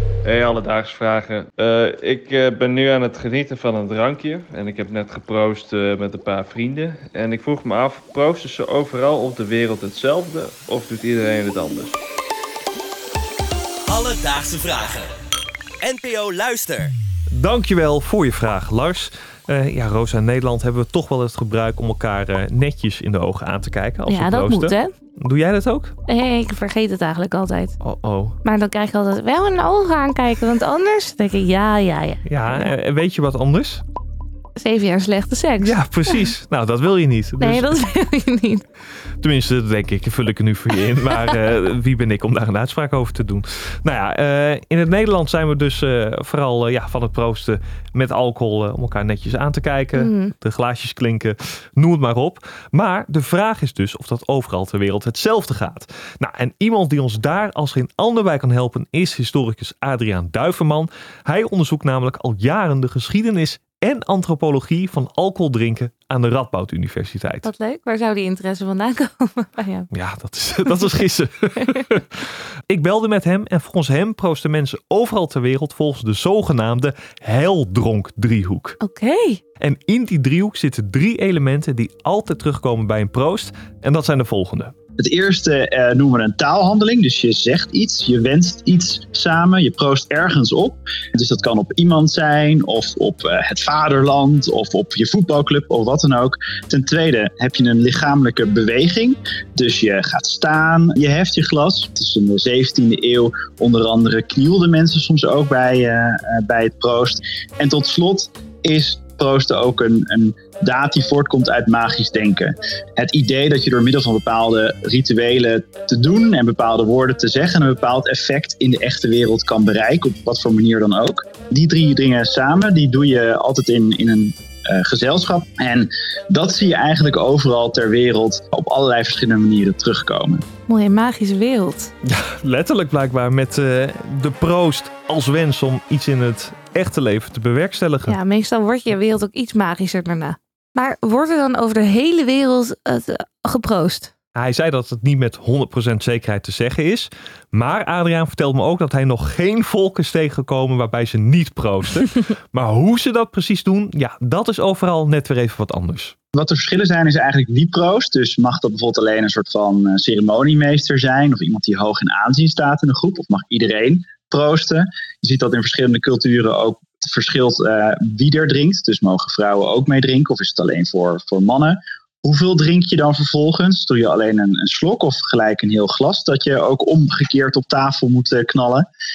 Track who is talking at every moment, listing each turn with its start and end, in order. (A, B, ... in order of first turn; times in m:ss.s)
0:00.2-0:12.0 A
0:13.9-0:15.1 B
0:15.8-0:16.9 B
0:17.3-0:25.9 C
0:24.1-0:24.9 D
0:26.1-0:27.8 D
0:27.8-0:28.4 C
0:28.4-0:32.7 D
0:32.2-0:33.8 C
0:34.6-0:36.3 D
0:35.6-0:37.7 C
0:37.4-0:38.6 D
0:39.2-1:07.5 C
0:41.0-0:41.4 D
0:50.0-0:50.3 D
1:07.4-1:09.9 D
1:09.9-1:18.8 C
1:18.8-1:19.4 D
1:19.6-1:24.7 C
1:25.0-2:10.4 E
2:10.7-2:11.9 D
2:12.0-2:18.2 C
2:18.1-2:24.1 D
2:24.3-2:36.1 C
2:36.3-2:58.8 E